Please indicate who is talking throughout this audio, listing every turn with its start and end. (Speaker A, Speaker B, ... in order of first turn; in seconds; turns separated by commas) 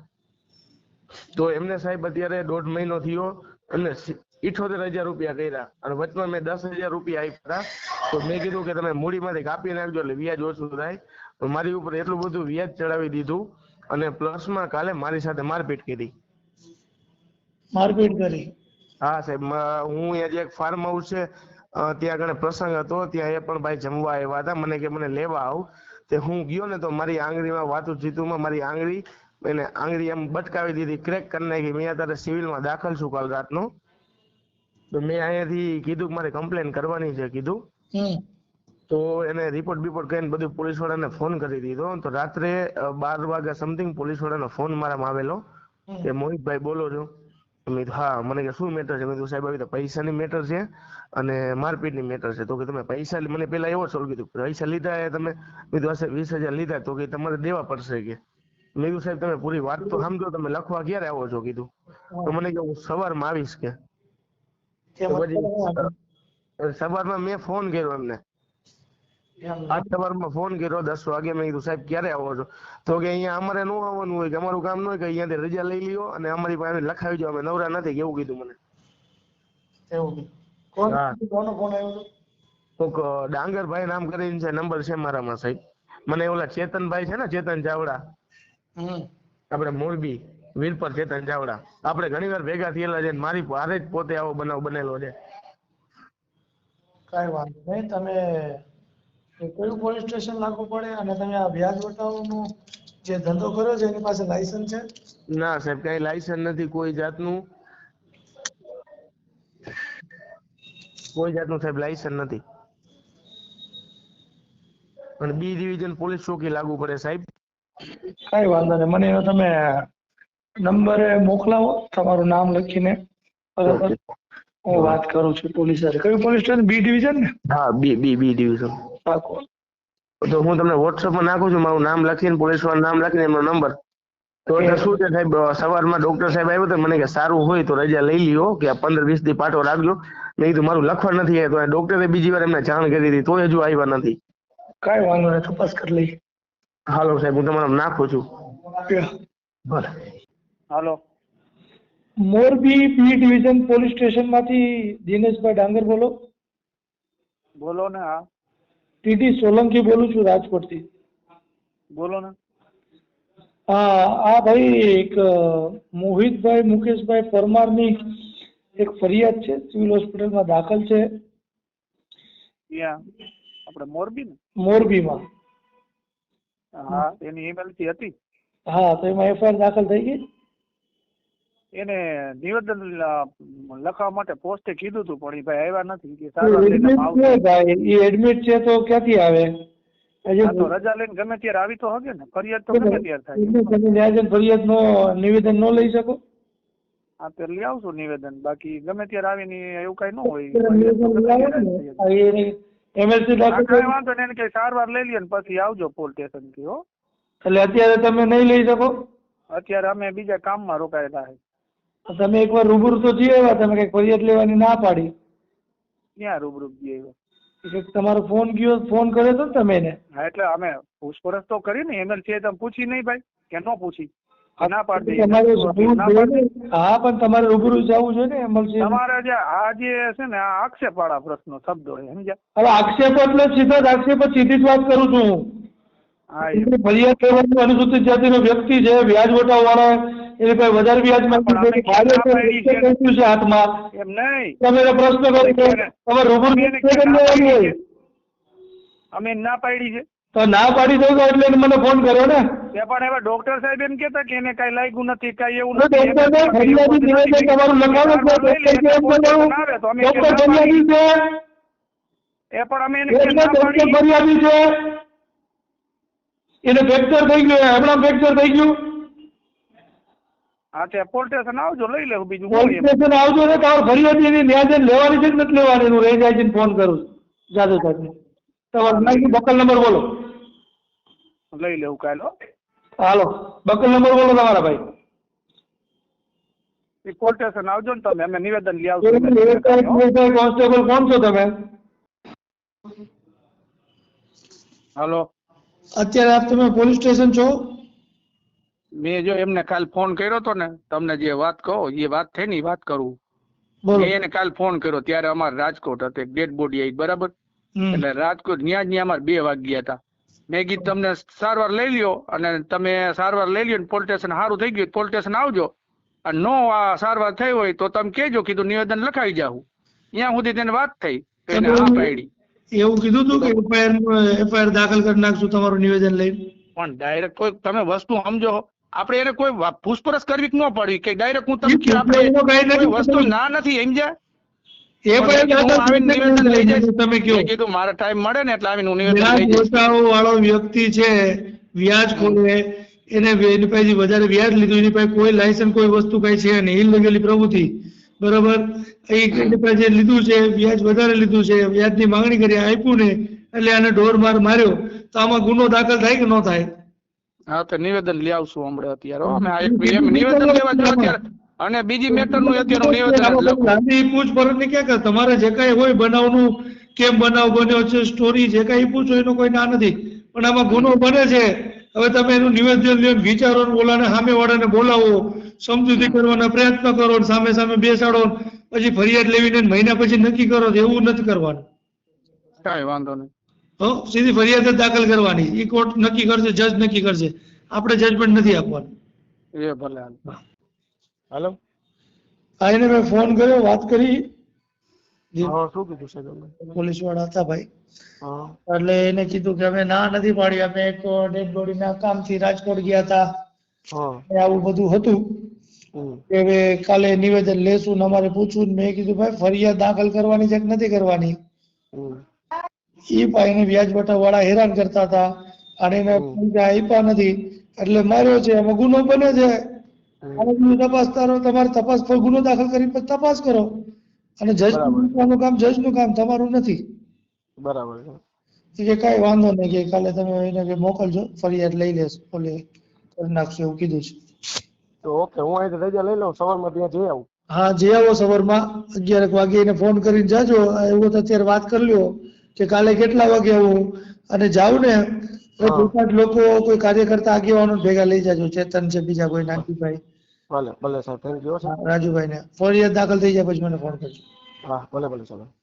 Speaker A: 1.3-16.1, Speaker B: 17.8-18.5, Speaker A: 19.0-21.2, Speaker A: 21.8-33.7, Speaker A: 34.9-37.6, Speaker A: 38.9-45.4, Speaker A: 46.0-47.1, Speaker A: 47.6-58.2, Speaker A: 58.8-61.7, Speaker A: 62.2-63.7, Speaker B: 65.0-65.9, Speaker A: 65.1-65.8, Speaker A: 66.6-68.2, Speaker B: 69.4-69.8, Speaker A: 69.7-78.6, Speaker B: 79.9-82.0, Speaker A: 80.9-81.1, Speaker A: 82.8-85.5, Speaker A: 86.1-88.0, Speaker B: 88.8-89.0, Speaker A: 89.5-95.1, Speaker B: 97.1-98.6, Speaker B: 99.4-102.4, Speaker B: 103.0-104.8, Speaker A: 105.3-107.4, Speaker A: 111.1-112.4, Speaker A: 115.2-117.2, Speaker B: 118.3-119.8, Speaker B: 120.6-123.0, Speaker B: 123.6-123.9, Speaker A: 123.7-123.9, Speaker B: 124.7-127.3, Speaker A: 124.7-125.0, Speaker A: 127.5-128.7, Speaker B: 129.1-129.4, Speaker A: 130.2-133.7, Speaker A: 134.5-144.2, Speaker B: 134.6-134.9, Speaker B: 144.8-146.1, Speaker A: 146.9-148.2, Speaker B: 152.3-156.1, Speaker C: 157.6-158.2, Speaker B: 159.0-160.8, Speaker C: 162.0-162.3, Speaker B: 163.7-167.9, Speaker B: 168.8-171.0, Speaker C: 173.7-174.3, Speaker B: 174.6-175.2, Speaker C: 176.8-178.1, Speaker B: 178.7-180.2, Speaker C: 181.8-187.4, Speaker B: 186.4-189.5, Speaker B: 190.3-190.7, Speaker C: 190.4-193.8, Speaker B: 192.7-196.2, Speaker C: 197.2-202.0, Speaker B: 200.5-203.9, Speaker C: 203.5-206.8, Speaker B: 207.4-208.9, Speaker C: 209.5-211.3, Speaker B: 212.1-215.1, Speaker C: 216.2-217.1, Speaker B: 217.6-219.9, Speaker C: 220.2-224.1, Speaker B: 224.6-228.9, Speaker C: 224.6-226.4, Speaker C: 228.8-232.4, Speaker B: 232.6-235.4, Speaker C: 236.3-236.7, Speaker B: 236.5-243.8, Speaker C: 241.3-242.9, Speaker C: 243.9-244.6, Speaker B: 244.6-247.7, Speaker C: 245.4-245.9, Speaker C: 246.4-247.7, Speaker C: 249.1-250.0, Speaker B: 250.3-252.4, Speaker C: 252.7-260.8, Speaker B: 255.7-261.1, Speaker C: 262.6-264.0, Speaker B: 263.1-264.6, Speaker B: 266.6-268.8, Speaker C: 270.8-272.9, Speaker B: 272.5-278.1, Speaker B: 278.7-280.0, Speaker C: 278.9-279.4, Speaker C: 281.5-282.3, Speaker B: 283.0-284.8, Speaker C: 287.0-290.0, Speaker B: 289.0-291.5, Speaker C: 295.0-295.3, Speaker B: 296.0-297.5, Speaker C: 299.0-303.1, Speaker B: 303.8-304.1, Speaker C: 304.0-307.3, Speaker B: 307.8-308.0, Speaker C: 308.0-309.9, Speaker C: 310.5-315.7, Speaker C: 316.3-319.6, Speaker C: 320.2-322.2, Speaker B: 321.5-322.1, Speaker B: 322.7-326.4, Speaker C: 326.8-334.1, Speaker B: 331.6-333.3, Speaker B: 335.1-337.5, Speaker C: 335.2-339.9, Speaker B: 339.0-347.7, Speaker B: 348.2-356.7, Speaker C: 357.5-363.8, Speaker B: 359.2-361.1, Speaker B: 362.1-381.6, Speaker C: 382.6-383.3, Speaker B: 383.8-388.9, Speaker C: 389.6-390.2, Speaker A: 391.3-391.6, Speaker B: 392.6-394.2, Speaker A: 395.4-396.6, Speaker B: 396.7-397.7, Speaker A: 398.2-398.5, Speaker B: 398.7-403.2, Speaker A: 403.9-404.2, Speaker B: 404.3-405.5, Speaker A: 405.9-406.2, Speaker B: 406.3-411.3, Speaker B: 413.1-415.2, Speaker B: 415.8-419.5, Speaker A: 416.1-416.4, Speaker A: 420.2-420.5, Speaker B: 420.4-423.7, Speaker B: 424.4-426.8, Speaker A: 424.7-425.2, Speaker A: 427.6-428.2, Speaker B: 428.8-432.6, Speaker B: 433.1-434.2, Speaker A: 435.0-437.2, Speaker B: 437.5-443.8, Speaker B: 444.3-445.0, Speaker B: 445.6-450.0, Speaker A: 445.6-445.9, Speaker A: 450.5-451.7, Speaker B: 451.6-454.2, Speaker A: 454.6-455.5